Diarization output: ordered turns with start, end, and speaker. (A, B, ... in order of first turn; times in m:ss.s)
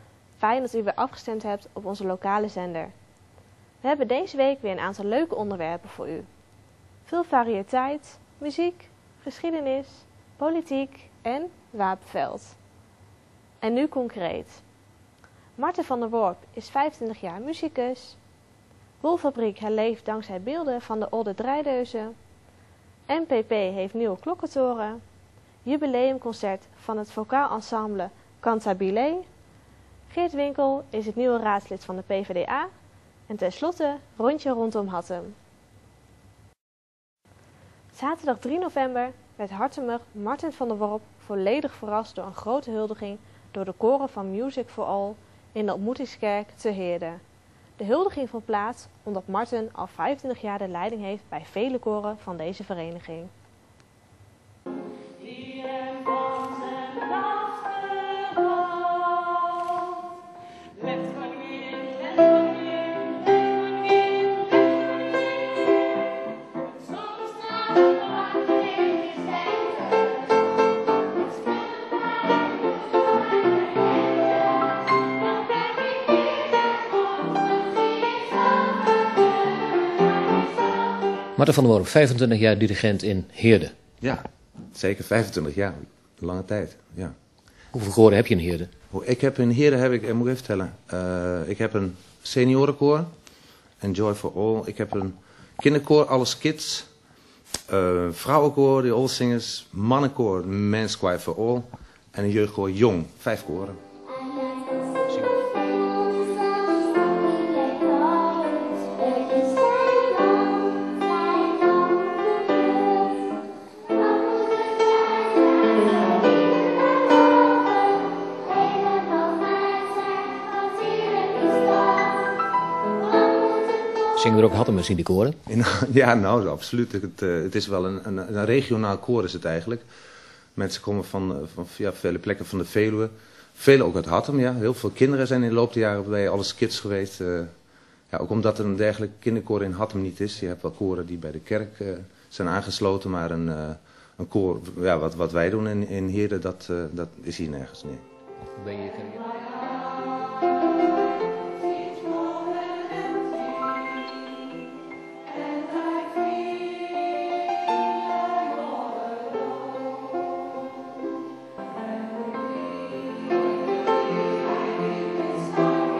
0:00.4-0:02.9 A
0:03.8-0:06.3 A
0:07.0-0:12.6 A
0:13.6-0:14.6 A
0:15.6-0:18.2 A
0:19.0-0:22.1 A
0:23.1-0:25.0 A
0:25.6-0:29.3 A
0:30.1-0:32.7 A
0:33.3-0:35.4 A
0:37.9-0:47.2 A
0:47.8-0:53.3 A
1:21.4-1:23.7 B
1:24.0-1:27.1 C
1:27.7-1:28.7 B
1:28.9-1:33.1 C
1:33.8-1:36.9 C
1:37.7-1:43.8 C
2:04.2-2:05.4 B
2:05.4-2:09.8 C
2:10.6-2:17.5 C
2:18.1-2:28.0 C
2:28.6-2:29.2 B